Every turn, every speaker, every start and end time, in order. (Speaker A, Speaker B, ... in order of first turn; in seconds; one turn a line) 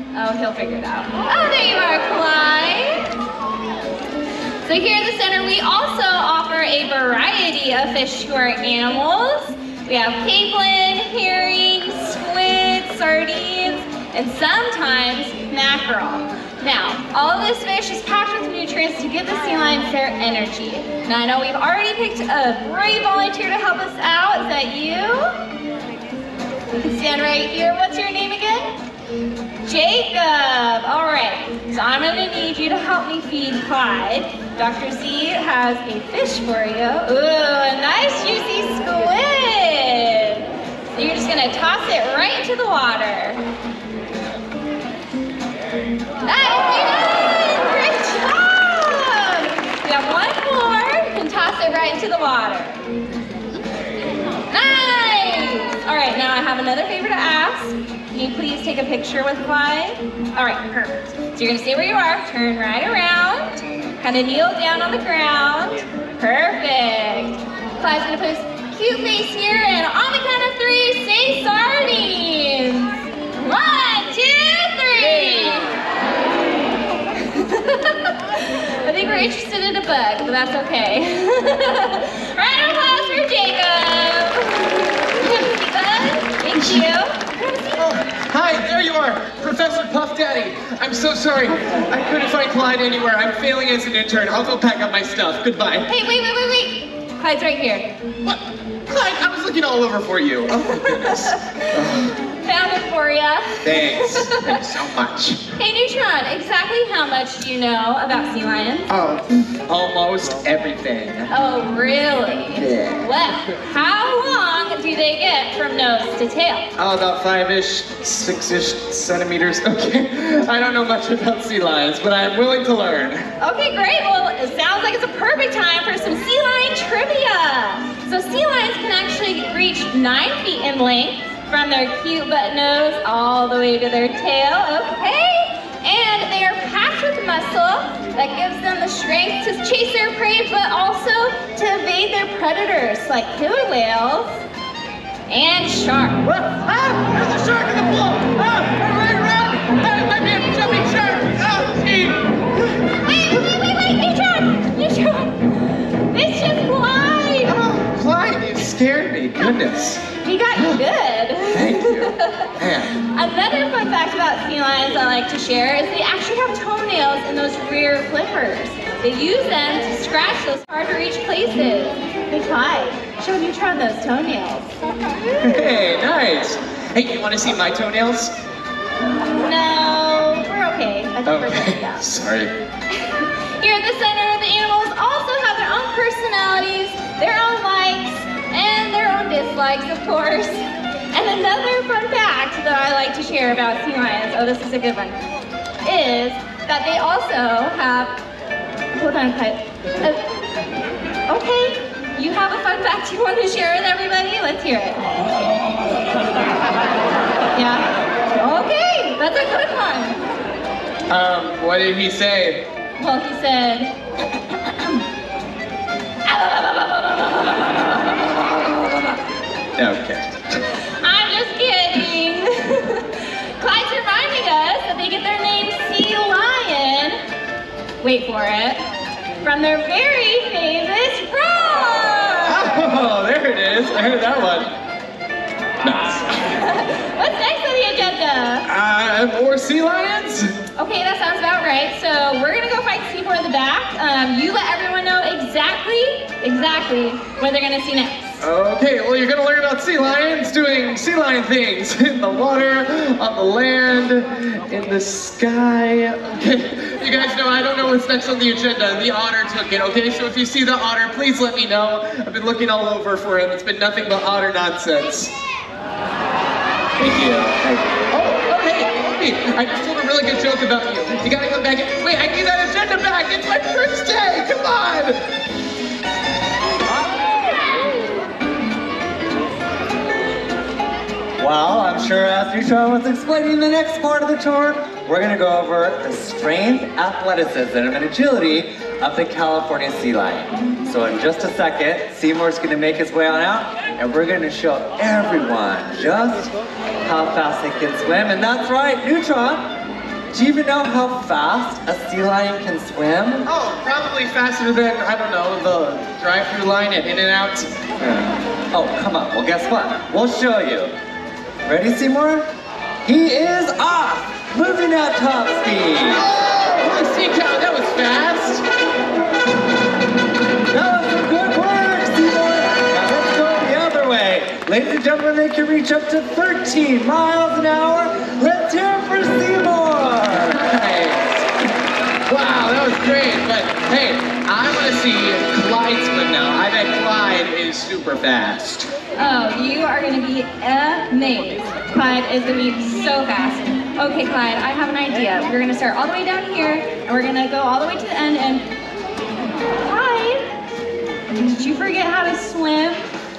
Speaker A: 0.1-3.1
Speaker A: 4.6-25.4
Speaker A: 26.7-28.8
Speaker A: 29.7-43.4
Speaker A: 46.2-52.8
Speaker A: 54.5-75.7
Speaker A: 77.2-87.7
Speaker B: 86.6-86.9
Speaker B: 87.8-95.9
Speaker A: 95.9-97.9
Speaker B: 98.2-102.2
Speaker A: 100.9-104.5
Speaker B: 103.6-105.4
Speaker A: 105.6-108.9
Speaker B: 108.9-111.3
Speaker A: 111.3-116.7
Speaker B: 112.5-113.0
Speaker B: 116.8-123.3
Speaker A: 123.4-144.4
Speaker A: 145.3-146.2
Speaker B: 146.2-152.2
Speaker A: 153.1-157.6
Speaker B: 157.5-160.0
Speaker A: 160.2-174.7
Speaker B: 160.6-160.8
Speaker B: 161.5-162.9
Speaker B: 175.4-178.3
Speaker A: 179.3-182.0
Speaker B: 181.3-182.5
Speaker A: 182.9-195.2
Speaker A: 195.8-198.2
Speaker A: 198.9-200.2
Speaker A: 201.3-205.1
Speaker A: 207.6-210.2
Speaker B: 211.1-212.7
Speaker A: 213.0-213.9
Speaker A: 214.6-215.0
Speaker A: 216.2-218.5
Speaker B: 219.8-220.6
Speaker A: 221.0-227.2
Speaker A: 228.0-228.8
Speaker A: 229.4-232.9
Speaker B: 232.5-234.7
Speaker B: 235.8-236.6
Speaker A: 236.5-238.7
Speaker B: 238.7-240.5
Speaker A: 240.8-248.4
Speaker B: 248.4-265.3
Speaker B: 267.0-275.3
Speaker C: 281.4-296.5
Speaker C: 297.0-299.7
Speaker C: 300.3-303.5
Speaker B: 303.5-308.3
Speaker C: 308.7-310.9
Speaker C: 311.7-312.5
Speaker C: 313.1-316.3
Speaker B: 316.0-318.6
Speaker C: 320.7-330.6
Speaker B: 330.5-331.4
Speaker B: 332.3-338.9
Speaker A: 339.2-348.7
Speaker A: 349.8-350.5
Speaker A: 351.4-353.1